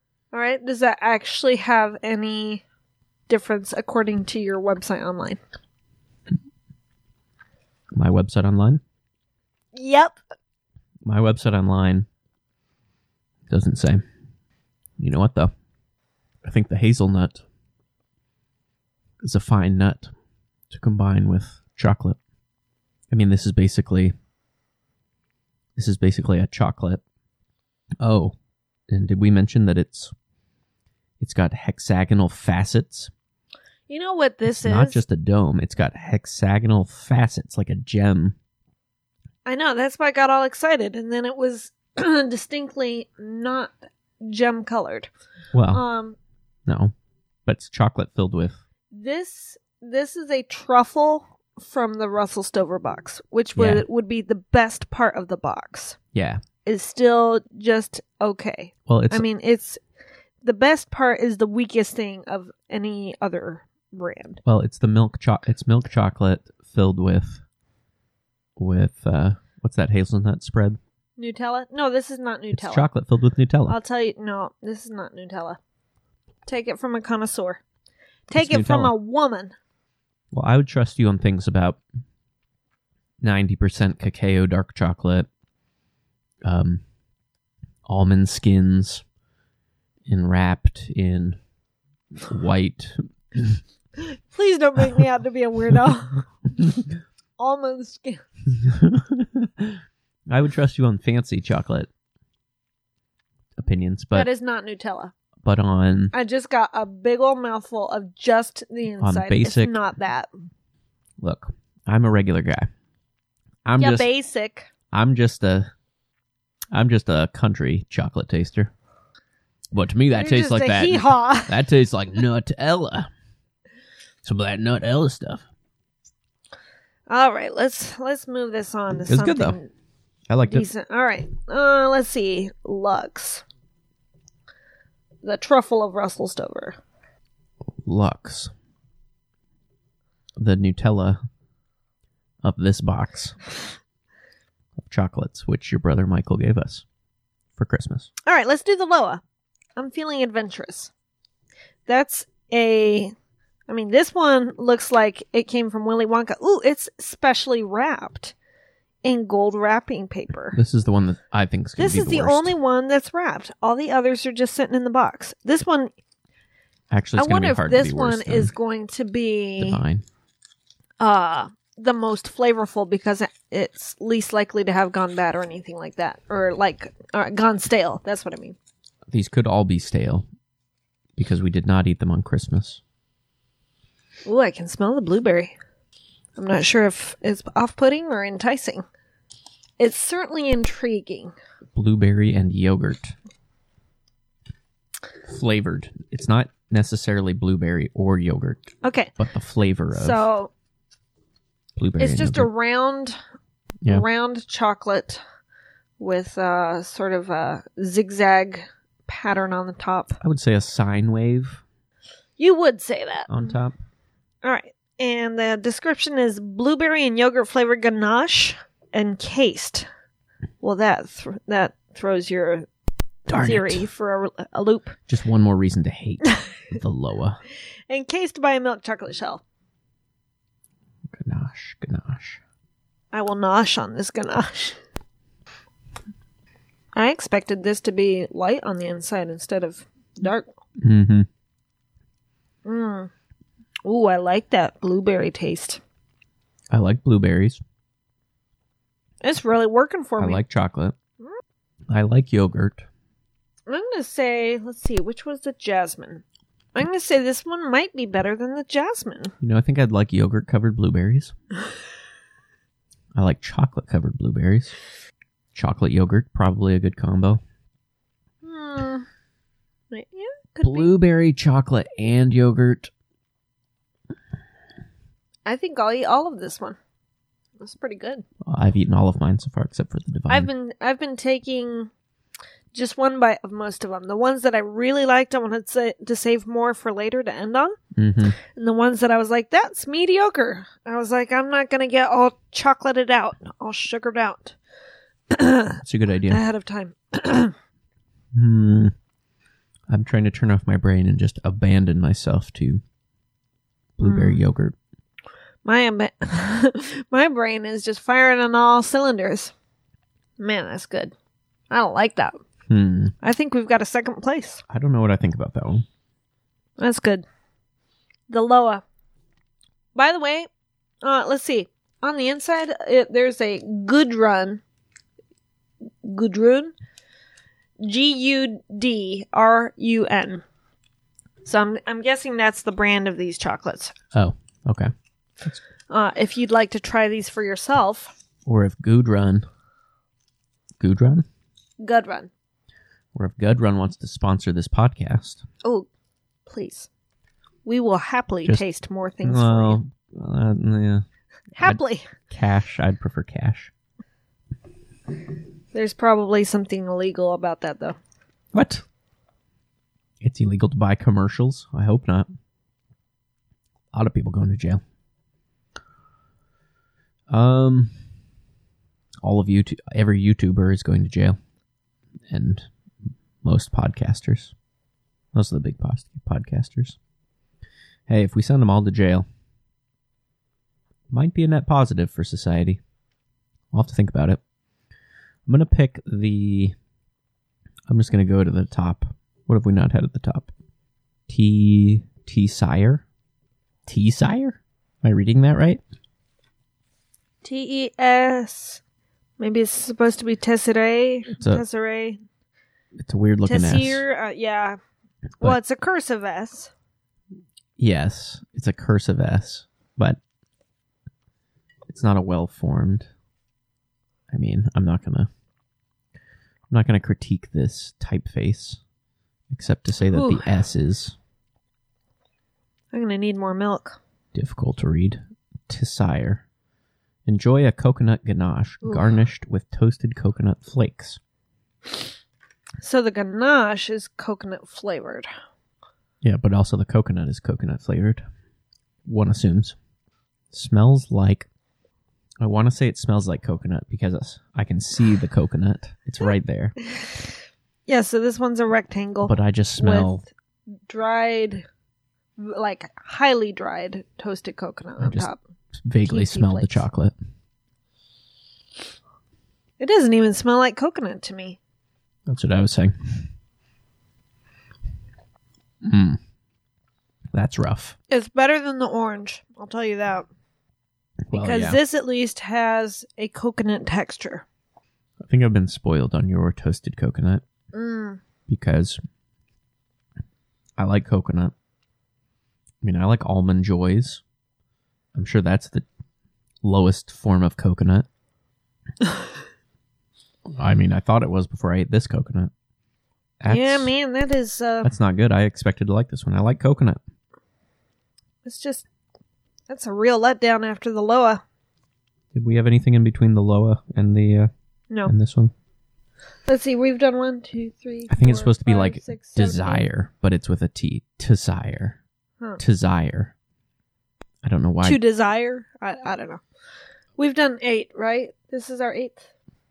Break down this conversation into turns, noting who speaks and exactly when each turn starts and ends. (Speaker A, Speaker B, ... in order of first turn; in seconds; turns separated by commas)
Speaker A: 0.3-2.6, Speaker A: 3.3-5.4, Speaker B: 7.9-8.8, Speaker A: 9.7-10.2, Speaker B: 11.0-12.1, Speaker B: 13.5-14.0, Speaker B: 15.0-15.5, Speaker B: 16.4-17.4, Speaker B: 19.2-20.1, Speaker B: 20.7-22.2, Speaker B: 23.1-24.1, Speaker B: 25.8-27.0, Speaker B: 28.0-28.3, Speaker B: 28.9-30.1, Speaker B: 31.2-33.1, Speaker A: 33.9-35.0, Speaker B: 34.5-38.4, Speaker A: 39.5-45.1, Speaker B: 45.5-45.8, Speaker A: 45.7-46.2, Speaker B: 46.7-46.9, Speaker B: 47.5-48.6, Speaker A: 48.9-56.0, Speaker B: 53.5-53.8, Speaker B: 56.1-56.4, Speaker A: 56.6-59.8, Speaker B: 58.9-59.2, Speaker A: 60.4-64.4, Speaker B: 64.4-67.4, Speaker B: 68.6-70.8, Speaker A: 71.2-72.8, Speaker B: 72.5-73.8, Speaker A: 73.7-75.6, Speaker A: 76.5-77.6, Speaker A: 78.3-79.5, Speaker B: 78.3-78.9, Speaker B: 80.3-81.8, Speaker B: 83.2-85.3, Speaker B: 86.4-86.8, Speaker B: 87.8-89.0, Speaker B: 90.1-91.4, Speaker B: 92.2-93.6, Speaker A: 94.0-96.3, Speaker A: 97.4-98.2, Speaker B: 98.5-101.9, Speaker B: 103.6-104.3, Speaker A: 104.1-105.1, Speaker B: 105.4-106.1, Speaker A: 106.1-110.3, Speaker B: 109.0-109.7, Speaker B: 111.2-112.7, Speaker B: 113.6-114.1, Speaker A: 113.8-114.7, Speaker B: 114.9-115.7, Speaker B: 116.7-118.7, Speaker B: 119.7-123.1, Speaker A: 120.1-121.6, Speaker B: 124.2-125.5, Speaker A: 127.1-129.7, Speaker B: 129.1-129.6, Speaker B: 130.3-130.7, Speaker A: 130.5-133.4, Speaker A: 135.2-136.8, Speaker B: 137.8-138.5, Speaker B: 140.4-141.2, Speaker B: 142.4-143.4, Speaker B: 144.8-146.8, Speaker B: 147.6-148.1, Speaker A: 148.2-149.2, Speaker A: 149.8-150.9, Speaker A: 151.9-153.1, Speaker A: 153.7-158.3, Speaker A: 159.0-160.6, Speaker B: 160.5-162.5, Speaker A: 161.8-165.9, Speaker B: 166.9-168.5, Speaker A: 167.2-169.8, Speaker B: 169.6-170.0, Speaker A: 171.0-178.6, Speaker B: 179.1-180.2, Speaker B: 181.2-182.8, Speaker A: 184.2-185.5, Speaker A: 186.4-188.8, Speaker A: 189.8-191.3, Speaker B: 191.7-193.1, Speaker B: 195.3-200.2, Speaker A: 198.8-199.1, Speaker A: 199.9-200.5, Speaker B: 201.8-202.5, Speaker A: 202.0-203.2, Speaker A: 203.9-205.2, Speaker A: 206.0-210.2, Speaker B: 210.2-211.6, Speaker A: 212.4-213.3, Speaker B: 213.3-213.8, Speaker A: 214.4-219.9, Speaker A: 220.6-222.7, Speaker B: 223.3-223.8, Speaker A: 223.3-225.0, Speaker B: 225.1-227.4, Speaker A: 227.9-229.4, Speaker B: 231.1-232.4, Speaker A: 233.1-234.8, Speaker A: 236.9-240.5, Speaker B: 240.8-241.3, Speaker A: 242.6-243.1, Speaker A: 243.8-245.8, Speaker B: 246.7-247.6, Speaker A: 249.2-250.4, Speaker B: 250.2-250.9, Speaker B: 251.9-252.8, Speaker A: 253.7-256.2, Speaker A: 256.7-259.3, Speaker B: 259.4-261.3, Speaker B: 263.2-264.7, Speaker B: 265.5-267.4, Speaker A: 268.4-269.1, Speaker A: 269.9-270.9, Speaker B: 270.6-272.9, Speaker A: 275.4-276.8, Speaker A: 277.6-278.2, Speaker B: 278.4-280.5, Speaker A: 280.3-281.9, Speaker A: 282.7-287.8, Speaker B: 287.9-288.4, Speaker A: 288.4-294.6, Speaker A: 295.3-297.5, Speaker B: 295.8-296.4, Speaker B: 298.3-298.9, Speaker B: 299.9-302.8, Speaker B: 304.0-304.7, Speaker A: 304.0-304.4, Speaker A: 305.6-309.5, Speaker A: 310.4-311.1, Speaker A: 311.7-312.4, Speaker B: 312.7-313.1, Speaker A: 313.2-314.6, Speaker B: 314.7-315.8, Speaker A: 316.8-317.2, Speaker A: 318.3-318.8, Speaker A: 319.9-320.5, Speaker A: 321.0-324.6, Speaker A: 326.0-326.7, Speaker A: 327.8-330.4, Speaker A: 331.4-333.9, Speaker B: 334.1-334.9, Speaker A: 335.9-338.1, Speaker B: 338.4-339.4, Speaker B: 340.8-341.2, Speaker A: 341.8-342.3, Speaker B: 343.1-345.4, Speaker A: 346.5-346.9, Speaker A: 347.6-349.8, Speaker B: 349.2-351.0, Speaker A: 351.6-352.1, Speaker B: 351.6-353.7, Speaker A: 355.7-358.0, Speaker B: 358.5-358.8, Speaker B: 360.2-362.3, Speaker B: 363.9-364.8, Speaker B: 367.3-367.9, Speaker B: 369.2-371.4, Speaker B: 372.3-372.7, Speaker B: 373.4-374.5, Speaker B: 375.3-377.0, Speaker B: 378.1-379.2, Speaker B: 381.1-382.8, Speaker B: 383.7-384.4, Speaker B: 385.5-386.7, Speaker B: 387.9-390.5, Speaker B: 391.3-393.0, Speaker B: 393.9-395.8, Speaker A: 397.4-398.8, Speaker A: 399.4-402.2, Speaker B: 401.4-401.6, Speaker B: 403.0-404.0, Speaker A: 403.4-404.8, Speaker A: 405.4-406.7, Speaker B: 407.8-410.2, Speaker B: 411.9-413.1, Speaker B: 414.3-415.3, Speaker B: 416.7-418.8, Speaker B: 419.5-421.1, Speaker A: 420.1-420.5, Speaker A: 422.9-424.0, Speaker B: 424.3-426.4, Speaker B: 427.2-431.2, Speaker A: 428.8-429.1, Speaker A: 432.8-435.3, Speaker B: 436.2-438.2, Speaker B: 439.0-439.8, Speaker B: 440.5-441.5, Speaker B: 442.4-446.8, Speaker A: 447.9-450.1, Speaker B: 449.2-450.2, Speaker A: 450.9-451.6, Speaker A: 452.4-455.4, Speaker B: 455.0-457.1, Speaker A: 456.0-456.8, Speaker A: 459.8-461.6, Speaker B: 462.3-463.3, Speaker B: 465.8-466.2, Speaker B: 467.3-467.9, Speaker A: 468.1-470.3, Speaker B: 471.3-471.8, Speaker A: 471.3-474.4, Speaker B: 475.2-477.4, Speaker A: 477.7-478.2, Speaker B: 478.5-479.0, Speaker B: 480.8-481.5, Speaker B: 482.8-484.2, Speaker B: 485.1-485.9, Speaker B: 486.6-488.1, Speaker B: 490.5-492.5, Speaker B: 493.4-493.9, Speaker A: 493.5-494.9, Speaker B: 494.8-497.0, Speaker A: 498.4-498.9, Speaker A: 499.7-501.4, Speaker B: 502.3-504.5, Speaker B: 505.1-505.5, Speaker A: 506.4-509.9, Speaker B: 508.1-512.0, Speaker B: 512.6-513.3, Speaker B: 514.4-515.0, Speaker A: 514.8-516.4, Speaker A: 517.2-519.3